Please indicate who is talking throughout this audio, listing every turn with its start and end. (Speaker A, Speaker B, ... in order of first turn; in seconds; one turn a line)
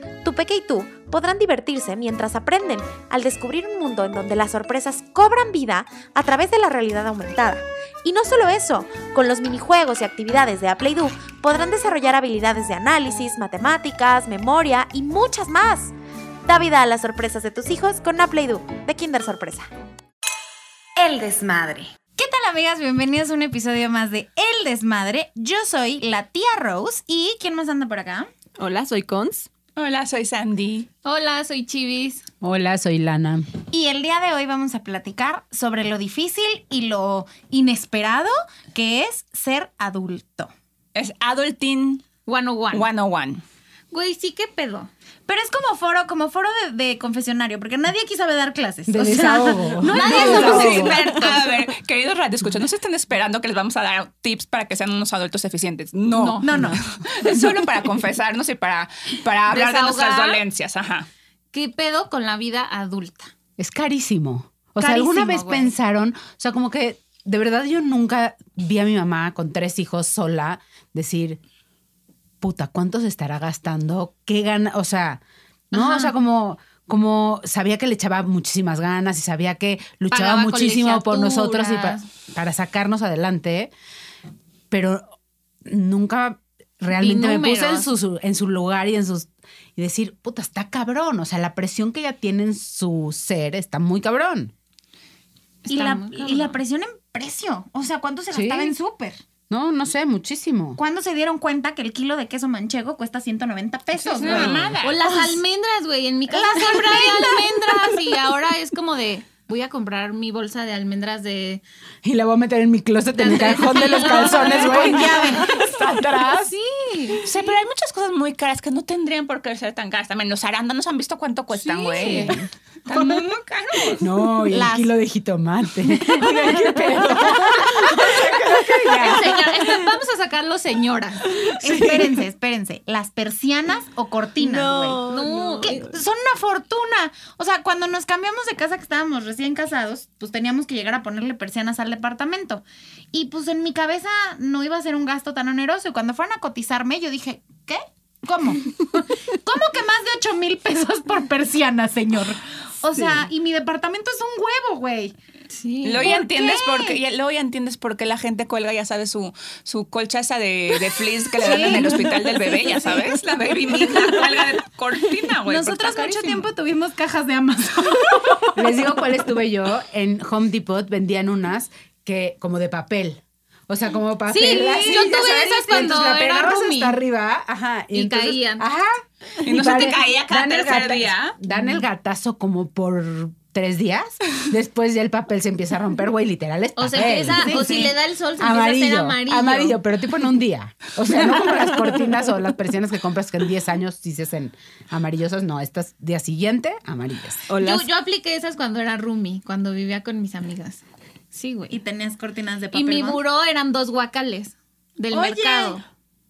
Speaker A: 0.2-19.7
Speaker B: 21.0-28.3
Speaker C: 28.6-29.5
Speaker D: 29.8-30.9
Speaker E: 31.0-32.2
Speaker F: 32.4-33.5
Speaker B: 33.7-40.5
Speaker D: 40.9-42.0
Speaker E: 42.2-42.9
Speaker D: 42.7-43.4
Speaker E: 43.9-44.9
Speaker B: 45.3-51.0
Speaker F: 48.9-51.0
Speaker E: 49.8-51.4
Speaker D: 50.0-61.1
Speaker E: 56.1-56.5
Speaker B: 56.4-57.6
Speaker F: 56.5-56.8
Speaker E: 59.5-60.4
Speaker E: 61.5-63.3
Speaker F: 63.6-71.4
Speaker E: 64.8-65.5
Speaker B: 65.3-65.7
Speaker F: 72.4-75.2
Speaker F: 75.7-83.7
Speaker E: 75.7-76.1
Speaker E: 80.1-82.0
Speaker F: 84.7-94.5
Speaker E: 86.9-87.9
Speaker E: 95.6-96.6
Speaker B: 95.7-99.2
Speaker F: 98.3-98.8
Speaker F: 99.5-100.8
Speaker B: 100.8-105.4
Speaker D: 103.9-105.0
Speaker C: 104.2-104.8
Speaker E: 104.8-111.6
Speaker B: 106.3-107.9
Speaker F: 112.0-116.5
Speaker E: 113.2-115.1
Speaker B: 114.1-115.6
Speaker E: 116.3-117.2
Speaker D: 117.2-124.2
Speaker E: 121.6-122.4
Speaker F: 122.0-122.5
Speaker F: 124.0-129.5
Speaker B: 124.5-124.9
Speaker C: 127.1-127.4
Speaker E: 128.9-131.4
Speaker B: 131.6-135.1
Speaker F: 131.6-132.2
Speaker C: 134.4-135.9
Speaker E: 135.1-135.9
Speaker B: 135.7-155.1
Speaker E: 155.5-156.2
Speaker D: 155.8-166.4
Speaker B: 156.0-157.0
Speaker B: 161.4-163.0
Speaker B: 165.4-168.9
Speaker F: 168.6-197.4
Speaker E: 174.3-177.0
Speaker B: 174.7-175.9
Speaker E: 177.9-178.7
Speaker D: 179.4-181.4
Speaker E: 186.8-189.8
Speaker B: 187.3-187.9
Speaker C: 197.5-197.9
Speaker E: 197.6-201.8
Speaker B: 201.7-203.2
Speaker E: 202.7-205.8
Speaker B: 205.1-205.8